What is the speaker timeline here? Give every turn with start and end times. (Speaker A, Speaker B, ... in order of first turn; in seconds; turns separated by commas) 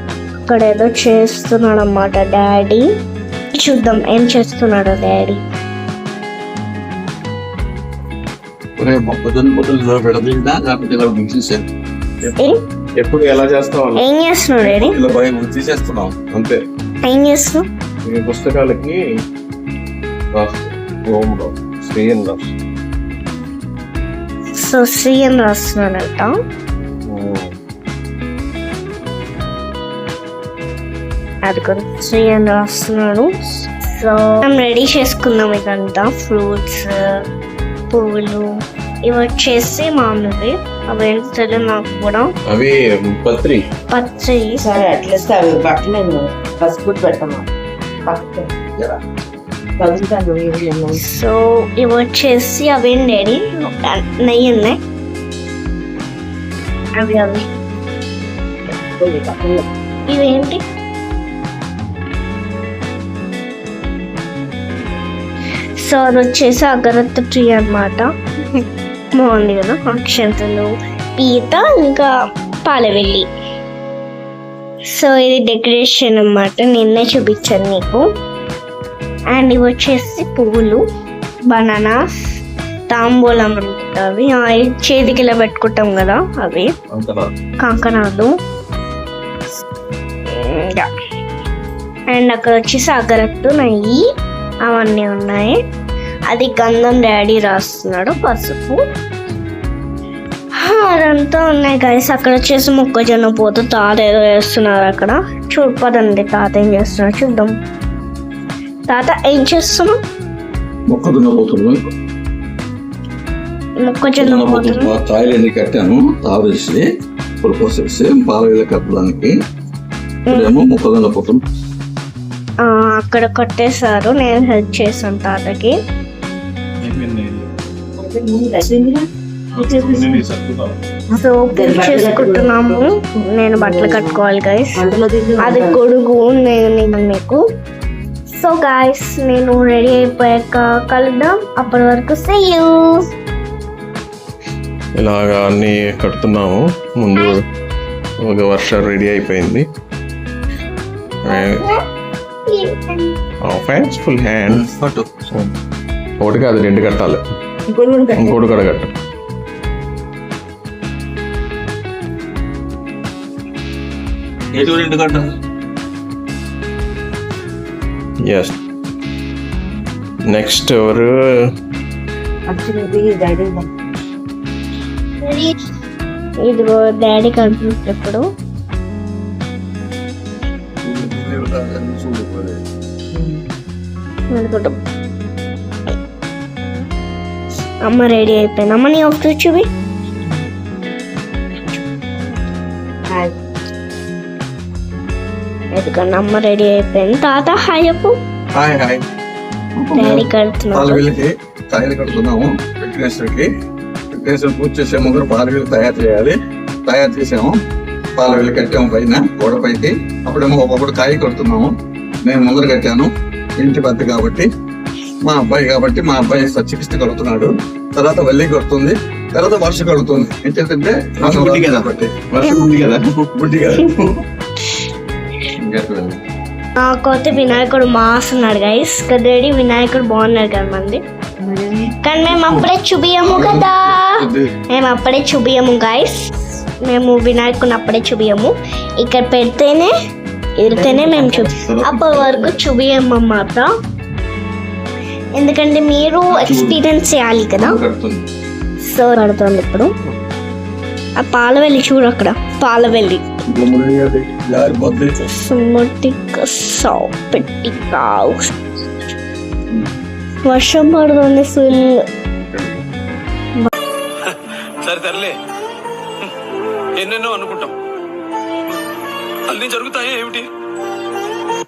Speaker A: 0.5-2.9, Speaker A: 3.6-5.4, Speaker B: 8.8-11.7, Speaker C: 13.0-14.0, Speaker A: 14.0-15.0, Speaker B: 14.6-16.2, Speaker C: 16.3-16.6, Speaker A: 17.1-17.7, Speaker C: 18.0-19.2, Speaker C: 20.3-22.5, Speaker A: 24.6-26.3, Speaker C: 27.1-27.6, Speaker A: 31.5-37.2, Speaker A: 37.9-42.3, Speaker C: 42.5-43.6, Speaker A: 43.9-44.7, Speaker D: 44.6-47.4, Speaker D: 48.1-48.5, Speaker D: 49.8-51.0, Speaker A: 50.9-54.8, Speaker A: 57.0-57.4, Speaker D: 59.0-59.6, Speaker A: 60.1-60.6, Speaker A: 65.8-68.6, Speaker A: 69.2-72.1, Speaker A: 72.6-73.3, Speaker A: 74.9-78.1, Speaker A: 79.3-80.8, Speaker A: 81.5-82.0, Speaker A: 82.9-86.7, Speaker C: 86.9-87.3, Speaker A: 87.6-88.3, Speaker A: 90.3-90.9, Speaker A: 92.1-94.0, Speaker A: 94.7-95.6, Speaker A: 96.3-98.8, Speaker A: 100.6-107.5, Speaker A: 108.9-110.0, Speaker B: 110.9-111.8, Speaker A: 113.8-114.9, Speaker B: 114.2-116.8, Speaker B: 117.4-119.4, Speaker A: 120.3-120.5, Speaker B: 120.3-121.4, Speaker A: 122.6-125.8, Speaker C: 126.8-127.5, Speaker D: 128.0-129.1, Speaker C: 129.5-130.8, Speaker A: 129.7-130.2, Speaker A: 131.2-134.8, Speaker D: 131.5-132.8, Speaker D: 133.6-134.2, Speaker D: 134.8-135.8, Speaker A: 135.4-137.4, Speaker A: 138.3-143.1, Speaker C: 145.0-147.4, Speaker C: 148.2-149.7, Speaker C: 151.2-151.7, Speaker A: 151.3-151.8, Speaker A: 152.5-153.2, Speaker C: 153.4-154.7, Speaker B: 154.5-155.1, Speaker C: 156.2-157.2, Speaker D: 157.7-158.4, Speaker C: 158.2-158.9, Speaker B: 164.5-165.3, Speaker C: 168.2-168.5, Speaker C: 170.3-171.5, Speaker D: 172.5-173.7, Speaker A: 175.2-175.5, Speaker A: 176.4-178.2, Speaker B: 180.8-182.6, Speaker A: 184.3-184.8, Speaker A: 187.8-189.7, Speaker A: 195.7-198.2, Speaker B: 198.5-199.0, Speaker B: 199.8-203.5, Speaker A: 199.9-201.0, Speaker B: 204.1-207.6, Speaker B: 208.2-214.5, Speaker B: 215.2-224.2, Speaker C: 221.2-221.7, Speaker B: 225.8-226.2, Speaker A: 226.8-231.0, Speaker A: 232.0-236.3, Speaker B: 232.3-232.6, Speaker B: 233.2-234.5, Speaker A: 236.8-239.9, Speaker A: 240.6-243.7, Speaker D: 240.7-241.4, Speaker B: 241.7-242.5, Speaker A: 245.4-247.8, Speaker B: 246.3-246.8, Speaker B: 247.6-248.3, Speaker A: 248.9-249.9, Speaker A: 251.2-253.3, Speaker B: 253.5-255.1, Speaker A: 255.2-258.5, Speaker A: 260.5-262.0, Speaker C: 262.5-262.9, Speaker E: 264.3-265.3, Speaker E: 267.0-267.7, Speaker E: 269.5-270.4